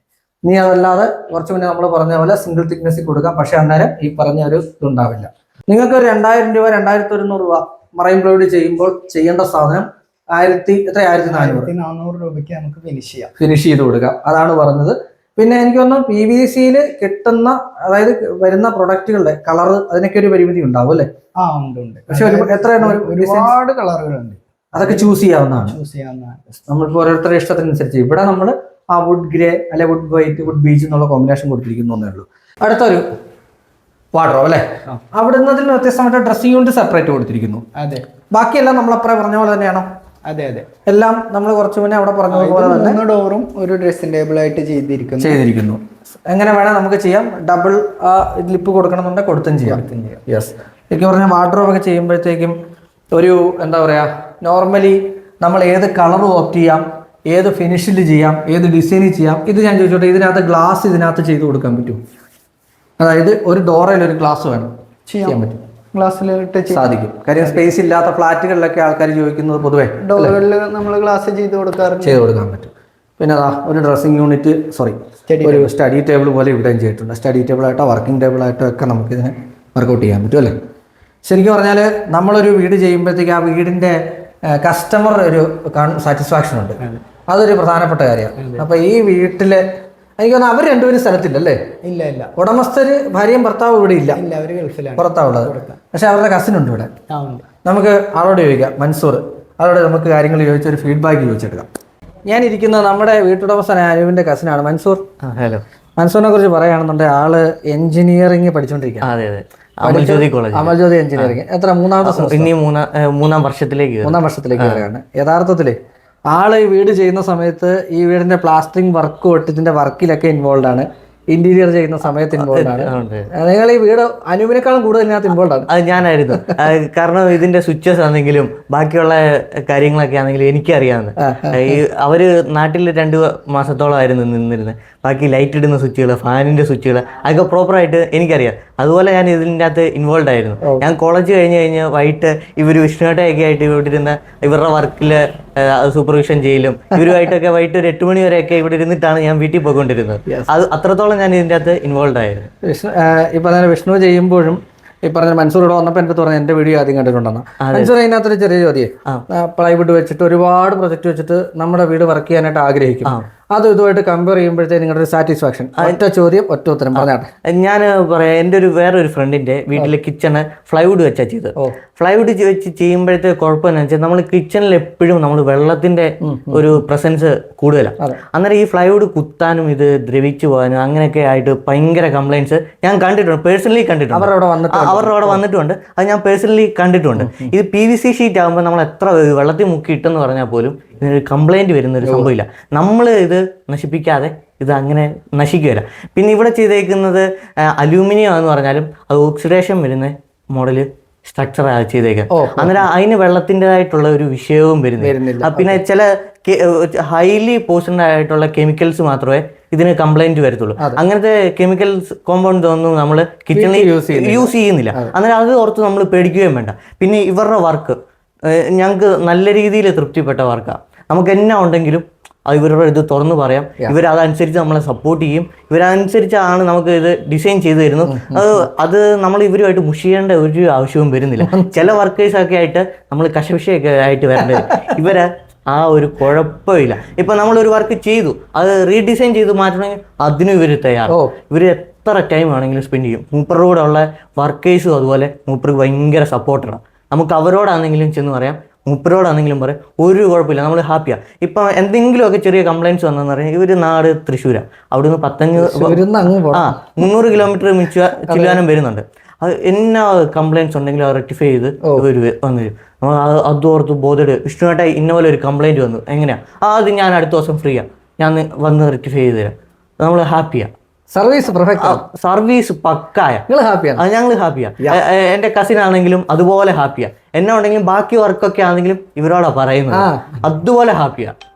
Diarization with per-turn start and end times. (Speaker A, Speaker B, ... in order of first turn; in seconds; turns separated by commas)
Speaker A: 0.4-11.7, Speaker B: 11.3-13.3, Speaker A: 13.4-21.1, Speaker B: 21.4-26.4, Speaker A: 22.1-23.5, Speaker A: 24.7-25.8, Speaker A: 26.7-33.0, Speaker A: 34.1-37.6, Speaker B: 37.8-38.0, Speaker A: 38.3-39.9, Speaker B: 40.3-40.7, Speaker A: 40.9-43.0, Speaker B: 42.3-45.4, Speaker A: 45.2-52.5, Speaker B: 49.6-50.2, Speaker A: 53.1-62.0, Speaker A: 63.0-64.7, Speaker B: 65.1-65.4, Speaker A: 65.2-65.6, Speaker B: 65.9-67.7, Speaker A: 66.7-70.3, Speaker B: 70.0-72.2, Speaker A: 72.0-80.5, Speaker B: 75.3-75.7, Speaker A: 81.2-84.0, Speaker A: 84.5-89.6, Speaker B: 88.4-88.7, Speaker A: 90.2-91.6, Speaker B: 91.8-92.3, Speaker A: 92.3-94.2, Speaker B: 94.1-95.8, Speaker A: 95.0-96.9, Speaker B: 97.1-97.5, Speaker A: 97.6-101.7, Speaker A: 102.3-105.0, Speaker C: 105.2-105.6, Speaker A: 106.0-109.1, Speaker C: 109.0-111.4, Speaker A: 109.8-112.5, Speaker C: 112.0-114.9, Speaker A: 114.0-115.8, Speaker A: 116.3-125.7, Speaker C: 122.3-123.3, Speaker C: 125.7-152.5, Speaker A: 131.2-131.8, Speaker A: 140.6-140.8, Speaker A: 152.6-167.3, Speaker C: 157.6-157.9, Speaker C: 166.9-218.0, Speaker A: 176.2-176.8, Speaker A: 184.1-185.4, Speaker A: 187.2-187.5, Speaker A: 192.0-192.3, Speaker A: 202.3-202.8, Speaker A: 205.0-205.8, Speaker A: 213.5-215.1, Speaker C: 218.5-256.0, Speaker A: 228.1-228.6, Speaker A: 231.4-231.8, Speaker A: 234.5-234.9, Speaker A: 255.6-256.7, Speaker C: 256.5-270.7, Speaker A: 258.3-258.6, Speaker A: 271.1-272.0, Speaker C: 271.8-273.4, Speaker A: 273.5-274.0, Speaker C: 274.0-281.3, Speaker A: 279.9-280.4